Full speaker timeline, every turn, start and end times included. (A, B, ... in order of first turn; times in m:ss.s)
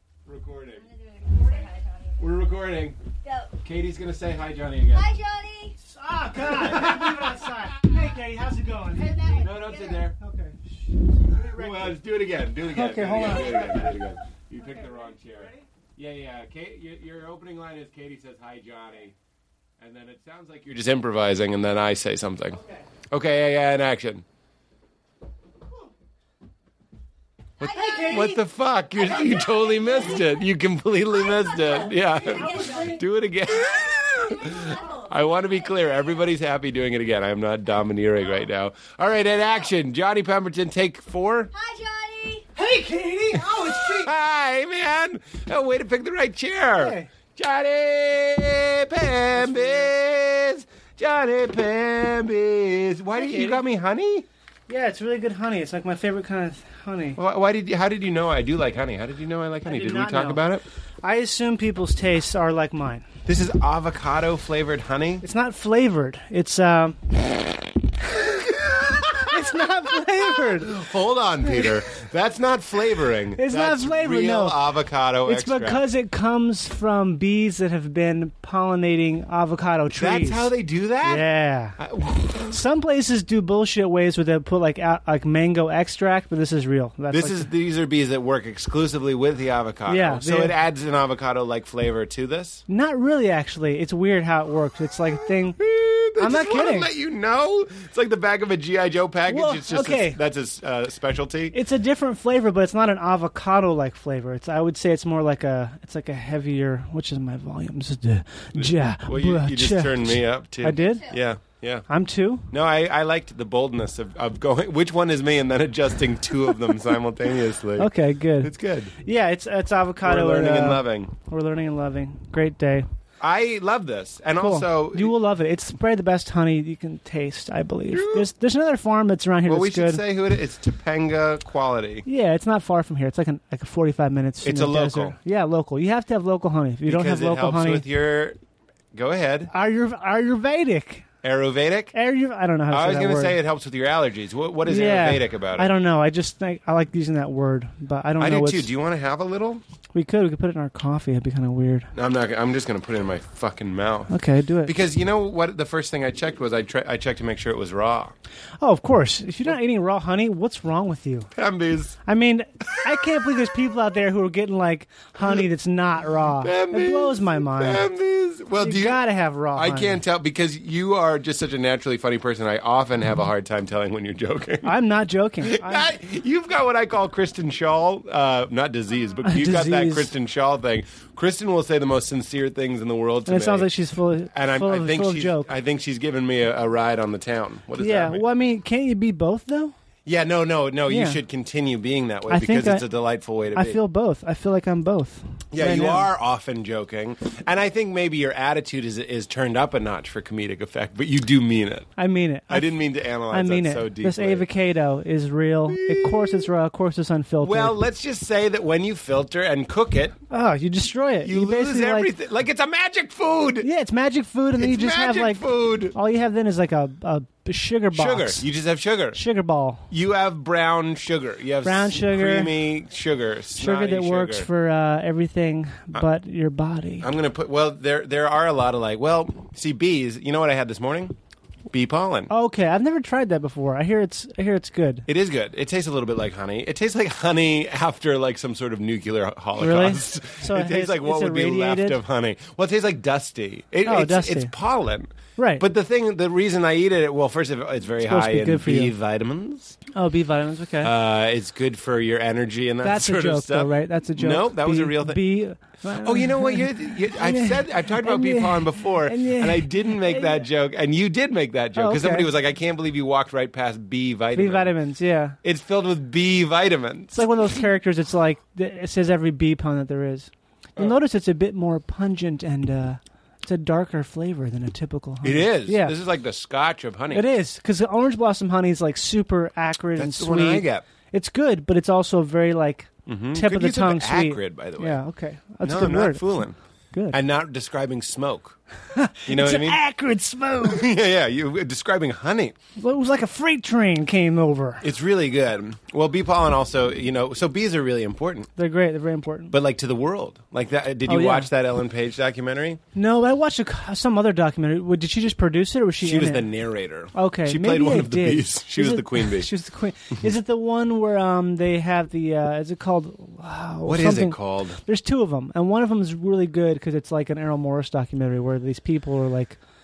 0:00.2-0:00.9 A
0:00.7-0:02.5 B
0:02.2-0:03.0 A
0:03.2-0:03.6 B
0:03.6-0:05.2 A
0:04.9-0:05.8 B
0:05.8-0:12.0 C
0:06.5-0:07.6 A
0:09.0-0:10.1 B
0:09.4-0:10.2 A
0:11.5-0:19.1 A
0:12.7-0:13.8 C
0:14.7-0:15.6 C
0:19.8-0:24.2 A
0:27.6-0:41.5 A
0:27.6-0:28.4 B
0:27.6-0:28.4 C
0:29.1-0:30.3 B
0:31.2-0:36.0 B
0:32.1-0:33.0 C
0:41.5-0:42.5 B
0:42.5-0:44.1 C
0:44.0-0:54.2 A
0:46.8-0:47.1 C
0:53.2-0:53.6 C
0:54.7-0:57.2 C
0:57.2-1:00.6 A
0:59.6-1:00.4 C
1:01.0-1:03.0 C
1:03.2-1:05.2 A
1:05.2-1:07.1 C
1:08.1-1:09.6 A
1:09.2-1:10.8 C
1:10.3-1:15.8 A
1:13.4-1:14.6 C
1:15.2-1:20.5 C
1:19.9-1:22.5 A
1:21.0-1:21.8 C
1:22.4-1:27.5 C
1:27.1-1:32.6 A
1:29.9-1:30.6 C
1:32.7-1:35.6 C
1:35.6-1:41.6 A
1:36.2-1:36.9 C
1:39.3-1:40.2 C
1:41.5-1:51.2 C
1:48.6-1:51.9 A
1:51.9-1:52.5 C
1:52.5-1:58.9 A
1:57.8-2:02.9 C
2:00.0-2:01.1 A
2:03.2-2:05.2 A
2:04.4-2:10.0 C
2:07.9-2:08.3 A
2:09.4-2:12.0 A
2:12.0-2:17.8 C
2:14.4-2:15.2 A
2:16.8-2:18.4 A
2:18.9-2:19.5 A
2:19.5-2:21.1 C
2:21.2-2:21.9 A
2:21.9-2:23.4 C
2:22.7-2:25.7 A
2:24.6-2:28.7 C
2:28.2-2:29.6 A
2:29.9-2:31.9 C
2:31.9-2:38.2 A
2:34.1-2:34.7 C
2:38.6-2:41.3 C
2:41.3-2:42.0 A
2:42.0-2:47.9 C
2:46.4-2:49.0 A
2:48.6-2:50.0 C
2:49.5-2:54.8 A
2:54.6-2:56.0 C
2:55.4-3:03.7 A
2:59.2-3:00.1 C
3:03.3-3:05.5 C
3:04.3-3:08.2 A
3:07.8-3:09.8 C
3:10.0-3:13.8 A
3:10.9-3:11.2 C
3:12.3-3:12.8 C
3:13.5-3:16.1 C
3:15.5-3:21.9 A
3:22.0-3:27.8 C
3:22.5-3:24.5 A
3:25.7-3:26.5 A
3:27.4-3:30.2 A
3:30.3-3:32.1 C
3:31.2-3:33.7 A
3:33.6-3:38.4 C
3:34.6-3:35.9 A
3:37.9-3:39.2 A
3:39.1-3:39.9 C
3:39.9-3:44.5 A
3:41.6-3:42.5 C
3:43.6-3:47.1 C
3:47.0-3:51.2 A
3:51.7-3:52.3 A
3:52.3-3:55.1 C
3:55.1-4:09.8 A
3:59.6-4:02.0 C
4:03.8-4:04.5 C
4:05.4-4:05.6 C
4:08.0-4:08.9 C
4:09.9-4:10.9 C
4:10.8-4:15.2 A
4:12.8-4:20.4 C
4:16.0-4:24.8 A
4:21.8-4:22.3 C
4:24.4-4:25.4 C
4:25.4-4:27.2 A
4:27.1-4:36.0 C
4:35.2-4:37.3 A
4:37.1-4:46.3 C
4:40.0-4:40.9 A
4:43.1-4:45.0 A
4:45.6-4:46.6 A
4:46.9-4:47.2 C
4:47.1-4:48.6 A
4:48.9-4:50.9 C
4:49.3-4:49.8 A
4:50.6-4:52.6 A
4:52.8-4:54.8 C
4:54.8-4:58.5 A
4:58.6-4:59.5 C
4:59.5-5:02.8 A
5:01.1-5:01.5 C
5:02.9-5:06.5 C
5:06.0-5:09.5 A
5:07.1-5:19.6 C
5:13.9-5:14.8 A